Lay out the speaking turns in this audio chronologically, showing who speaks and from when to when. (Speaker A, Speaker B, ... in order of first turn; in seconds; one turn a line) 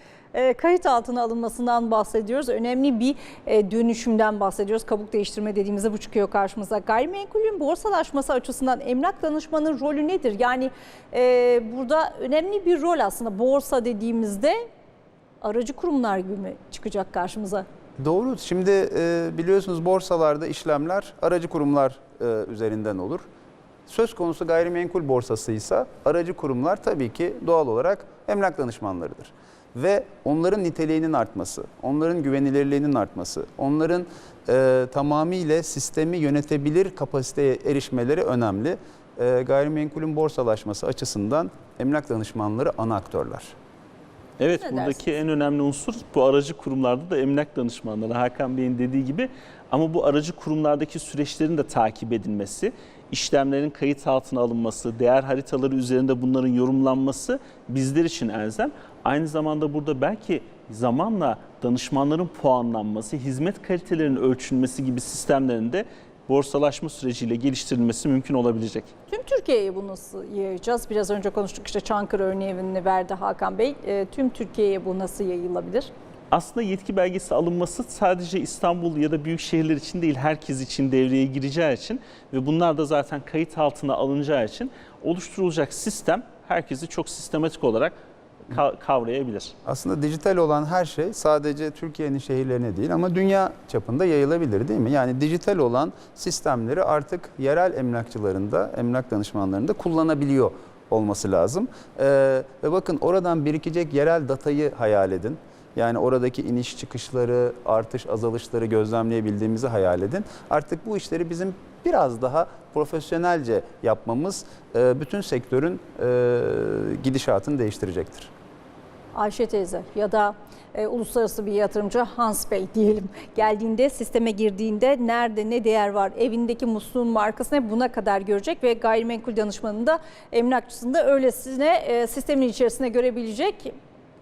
Speaker A: 0.3-14.6
Speaker A: 15.4-17.6
Speaker B: 18.0-23.2
Speaker B: 23.9-43.5
Speaker C: 44.4-68.9
Speaker A: 44.6-45.0
Speaker A: 69.1-75.9
Speaker C: 76.3-89.5
Speaker B: 89.6-118.3
Speaker A: 119.1-133.8